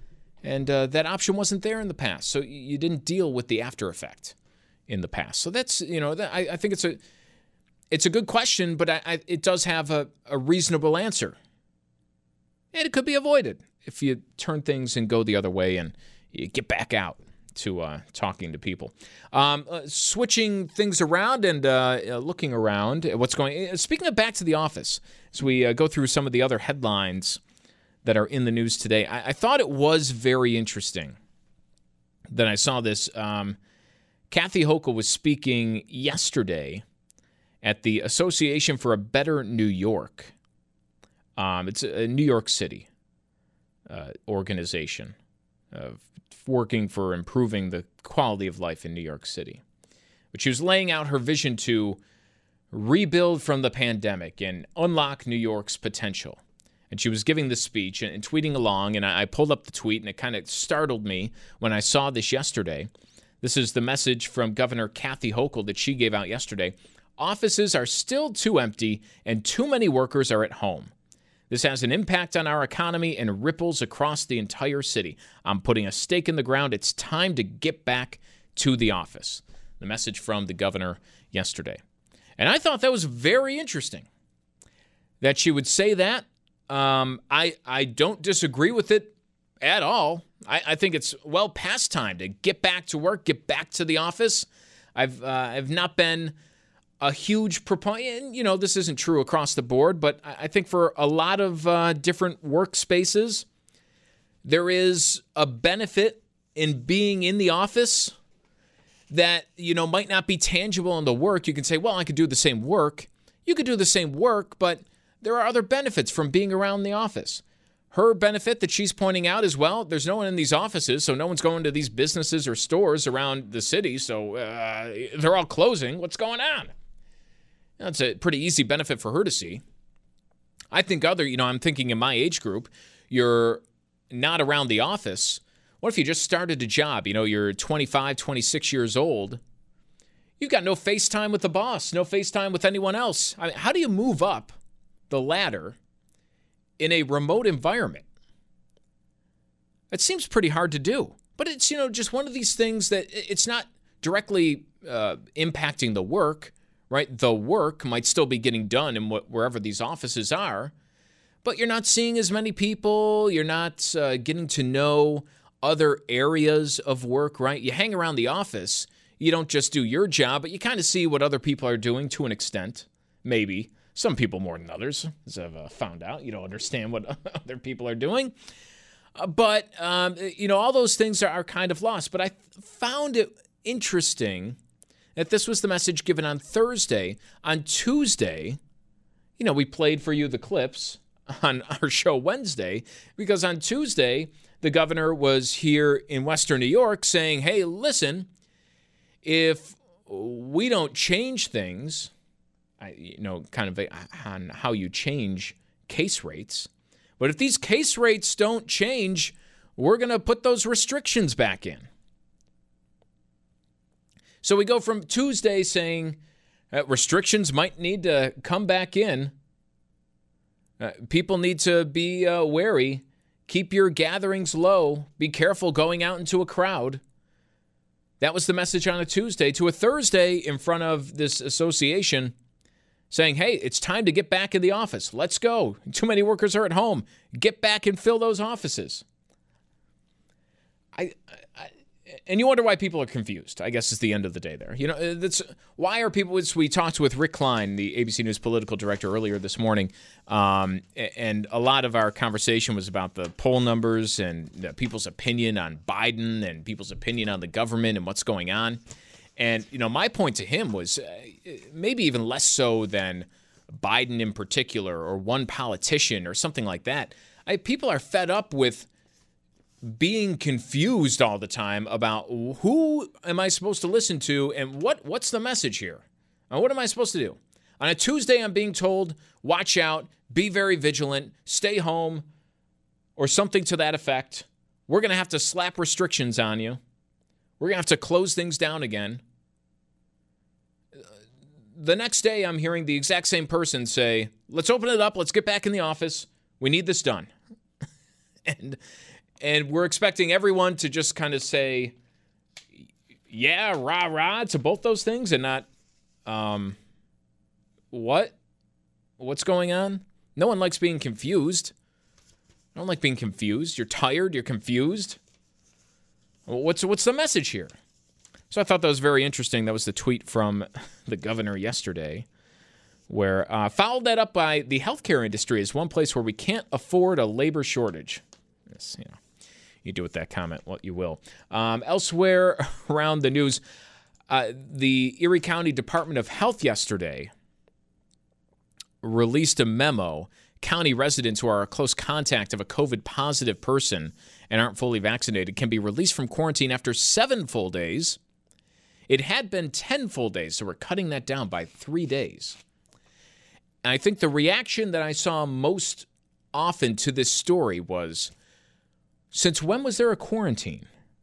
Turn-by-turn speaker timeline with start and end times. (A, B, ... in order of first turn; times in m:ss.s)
0:00.4-0:04.4 A
0:04.9-0:07.0 A
0:07.9-0:11.4 A
0:12.7-0:27.4 A
0:28.0-0:31.2 A
0:32.3-0:33.6 A
0:34.3-0:36.8 A
0:37.6-0:40.3 A
0:41.4-0:42.9 A
0:43.9-0:45.2 A
0:45.7-0:49.6 A
0:50.3-0:52.0 A
0:52.7-0:56.4 A
0:56.9-1:02.9 A
1:03.4-1:10.9 A
1:11.5-1:21.8 A
1:22.4-1:24.1 A
1:25.2-1:36.4 A
1:37.0-1:43.4 A
1:44.4-1:48.2 A
1:49.1-2:06.7 A
2:07.8-2:09.6 A
2:10.7-2:19.4 A
2:20.4-2:24.5 A
2:25.1-2:25.8 A
2:26.8-2:28.0 A
2:29.9-2:40.7 A
2:41.4-2:58.3 A
2:59.2-3:04.6 A
3:05.2-3:08.6 A
3:09.4-3:18.3 A
3:19.2-3:22.1 A
3:22.8-3:31.9 A
3:34.4-3:36.2 A
3:36.7-3:39.3 A
3:40.8-3:47.0 A
3:48.2-3:52.3 A
3:53.1-3:59.0 A
4:00.9-4:18.8 A
4:19.4-4:28.9 A
4:29.8-4:42.2 A
4:43.2-4:46.8 A
4:47.6-4:49.2 A
4:51.8-4:57.3 A
4:58.5-4:58.8 A
4:59.4-5:02.0 A
5:03.3-5:05.7 A
5:06.3-5:06.8 A
5:07.9-5:08.3 A
5:09.2-5:11.7 A
5:12.8-5:15.2 A
5:16.5-5:17.7 A
5:18.5-5:22.3 A
5:23.1-5:29.2 A
5:29.8-5:33.6 A
5:34.3-5:37.3 A
5:39.0-5:48.2 A
5:49.1-5:52.6 A
5:53.8-5:58.3 A
5:59.3-6:00.9 A